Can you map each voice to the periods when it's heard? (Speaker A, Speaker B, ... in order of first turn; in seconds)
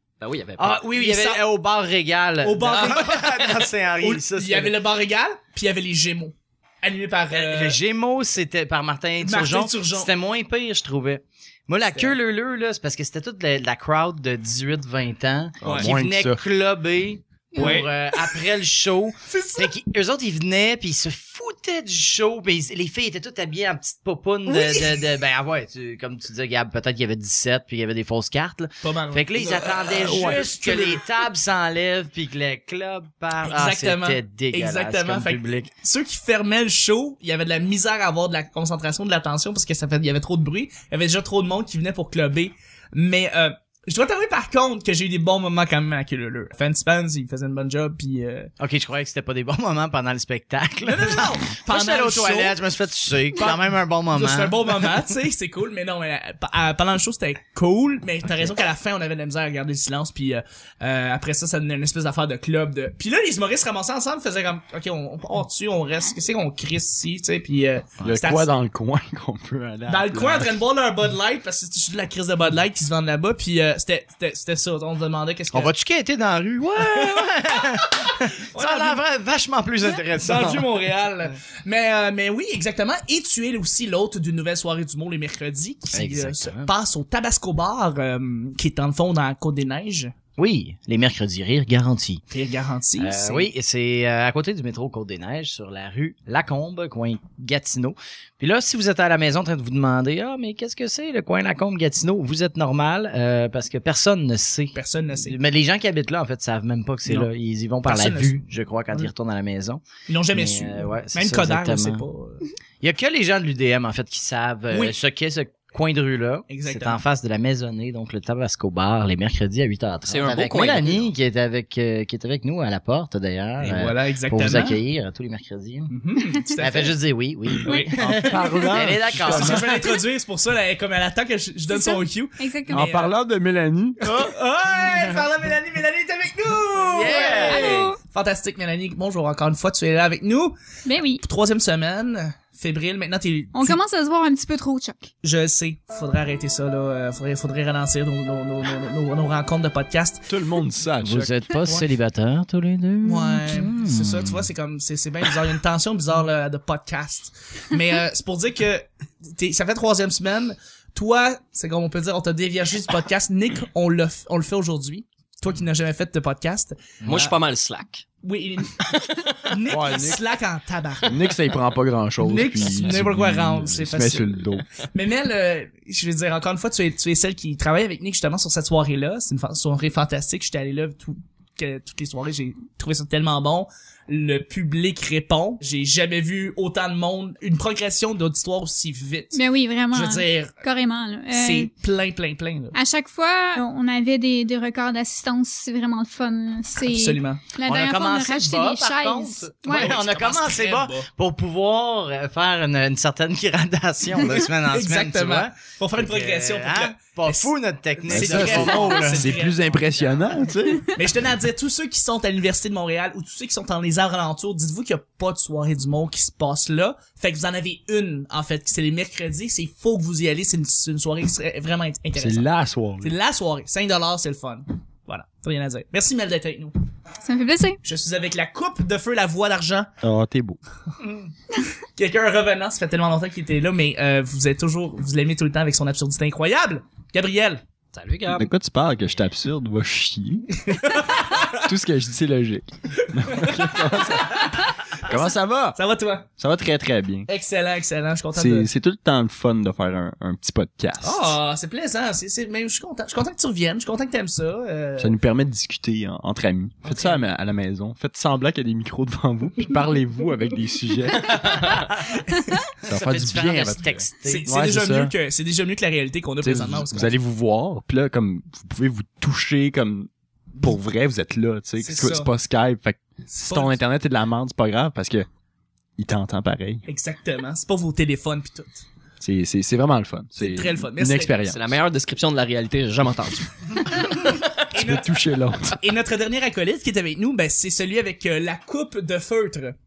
Speaker A: 0.2-0.8, 2.7-3.0, 120.0-121.1, 167.0-168.1, 237.9-238.5, 281.5-284.4
Speaker B: 0.6-4.8, 7.3-35.7, 48.6-54.7, 75.5-80.7, 85.9-86.7, 90.4-92.2, 93.0-112.0, 112.8-126.0, 126.6-129.8, 134.8-135.2, 136.8-137.9, 151.0-154.4, 197.7-210.5, 261.5-262.2, 262.8-264.5
Speaker C: 0.7-1.4, 2.4-7.8, 9.2-10.1, 11.9-12.2, 15.6-15.9, 17.6-18.4, 19.3-19.7, 24.5-25.0, 28.8-31.0, 33.4-48.5, 50.8-52.6, 53.4-68.5, 69.9-75.7, 76.8-77.7, 78.5-79.0, 80.2-90.1, 92.3-93.5, 104.7-105.4, 107.8-108.4, 110.1-112.5, 114.7-115.0, 116.5-117.0, 123.6-124.8, 125.9-127.0, 127.6-133.1, 134.0-140.6, 141.2-143.8, 145.2-150.3, 153.0-167.3, 168.2-171.2, 172.2-189.4, 189.9-190.5, 191.3-192.8, 196.8-197.5, 199.7-201.1, 204.2-209.7, 210.9-222.5, 223.0-226.7, 227.8-229.9, 232.0-237.6, 240.6-241.7, 243.0-245.2, 245.8-246.3, 247.3-248.7, 251.0-255.1, 256.8-257.2, 262.3-262.6, 264.2-267.1, 271.8-272.3, 273.3-273.8, 276.9-278.9, 280.4-281.4, 284.7-289.8
Speaker D: 15.6-16.4, 30.0-30.5, 68.0-70.6, 128.0-129.7, 132.7-134.2, 150.3-151.3, 169.7-170.2, 171.0-174.7, 208.1-210.9, 222.2-223.2, 230.0-230.6, 238.3-240.5, 241.5-245.8, 246.4-247.3, 248.3-251.4, 255.0-261.6, 262.8-265.1, 266.4-270.1, 270.6-275.3, 276.0-276.9, 279.2-281.7, 284.7-285.8
Speaker E: 17.6-17.9, 131.7-132.9, 137.0-138.0, 140.9-141.2, 143.5-145.1, 189.3-191.7, 192.7-200.0, 227.2-227.8